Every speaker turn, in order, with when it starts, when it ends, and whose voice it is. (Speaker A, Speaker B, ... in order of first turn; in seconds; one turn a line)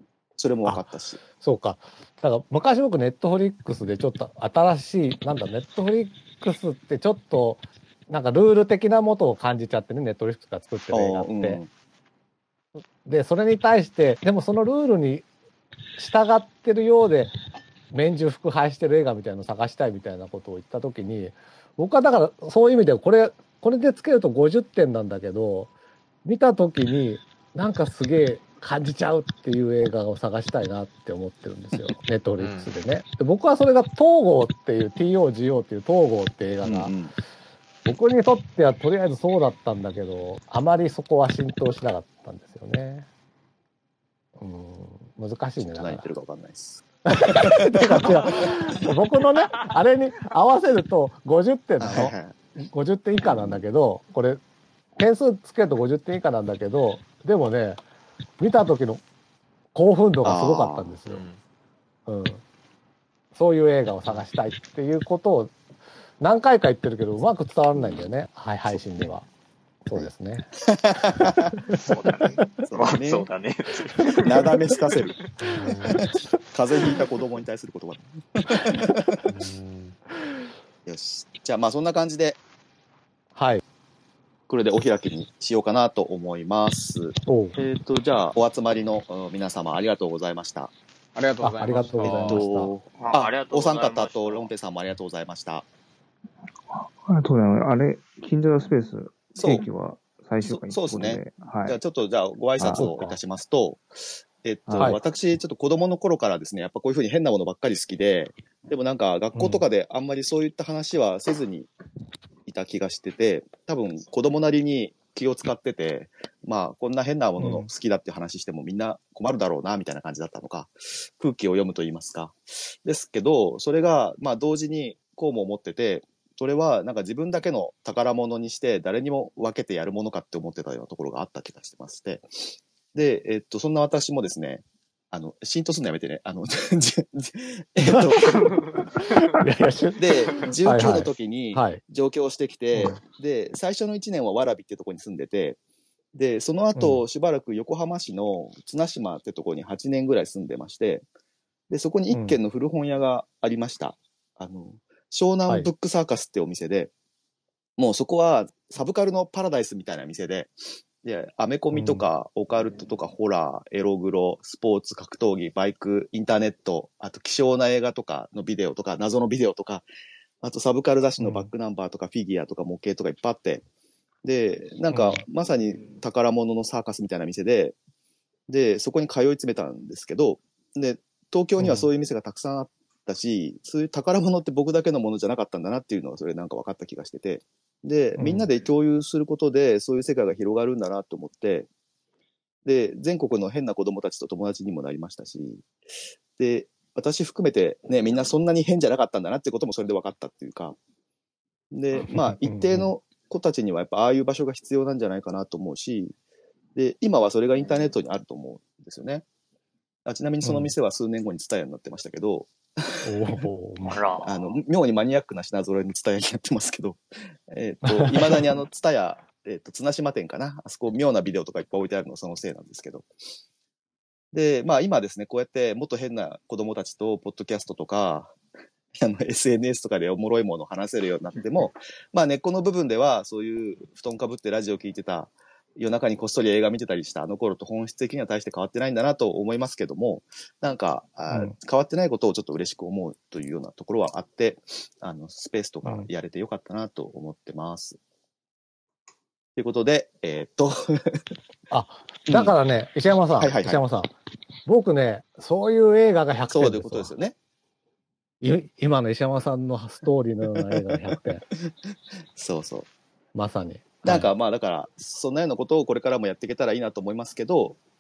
Speaker A: 0.4-1.2
Speaker B: 0.7-11.6
Speaker A: 10.9-11.7
Speaker B: 13.1-15.3
Speaker B: 16.0-17.3
Speaker B: 17.9-25.7
Speaker B: 26.2-37.0
Speaker C: 32.4-32.7
Speaker A: 36.6-37.1
Speaker B: 37.9-43.1
Speaker B: 44.4-46.1
Speaker A: 45.6-48.6
Speaker B: 47.1-54.4
Speaker A: 51.8-52.4
Speaker A: 53.2-53.6
Speaker B: 55.0-57.8
Speaker B: 58.4-59.0
Speaker B: 59.7-61.2
Speaker A: 60.2-60.9
Speaker C: 61.1-61.4
Speaker B: 62.1-62.4
Speaker B: 63.4-65.5
Speaker B: 66.2-69.3
Speaker A: 67.8-68.0
Speaker B: 69.8-71.5
Speaker A: 70.8-71.7
Speaker D: 71.7-75.2
Speaker A: 72.6-73.3
Speaker A: 74.2-75.2
Speaker C: 75.4-76.1
Speaker A: 75.8-79.2
Speaker C: 79.3-80.0
Speaker A: 80.9-82.4
Speaker B: 83.3-83.6
Speaker A: 84.5-90.7
Speaker B: 87.3-87.6
Speaker C: 91.2-92.5
Speaker B: 91.4-92.7
Speaker A: 92.1-95.7
Speaker D: 93.0-94.5
Speaker E: 96.7-101.8
Speaker A: 99.4-99.7
Speaker A: 100.5-103.8
Speaker B: 102.6-103.2
Speaker A: 104.4-111.7
Speaker E: 104.7-105.0
Speaker B: 109.3-109.6
Speaker A: 112.5-138.9
Speaker B: 117.4-117.7
Speaker B: 137.8-138.4
Speaker B: 139.0-141.8
Speaker A: 140.0-145.6
Speaker B: 142.7-143.0
Speaker A: 146.2-151.0
Speaker B: 146.8-147.0
Speaker A: 151.7-156.9
Speaker B: 152.1-152.4
Speaker A: 157.8-169.8
Speaker B: 161.7-162.1
Speaker A: 170.4-173.6
Speaker B: 171.2-171.5
Speaker A: 174.2-177.8
Speaker B: 174.9-175.2
Speaker A: 178.5-191.7
Speaker B: 181.6-181.9
Speaker B: 188.2-188.5
Speaker A: 192.7-195.7
Speaker A: 196.4-200.8
Speaker A: 201.7-206.1
Speaker B: 202.0-202.9
Speaker A: 206.8-209.2
Speaker A: 210.1-213.4
Speaker B: 210.4-210.7
Speaker B: 213.0-214.0
Speaker D: 213.9-214.6
Speaker A: 214.2-223.1
Speaker B: 217.8-218.6
Speaker A: 224.3-228.4
Speaker A: 229.0-248.0
Speaker B: 245.8-246.1
Speaker A: 249.6-251.2
Speaker B: 251.7-254.1
Speaker A: 252.3-252.6
Speaker A: 253.4-253.8
Speaker B: 254.7-257.1
Speaker A: 256.5-257.4
Speaker B: 258.4-261.5
Speaker A: 260.6-260.9
Speaker A: 261.9-262.9
Speaker B: 263.4-264.3
Speaker A: 264.0-267.8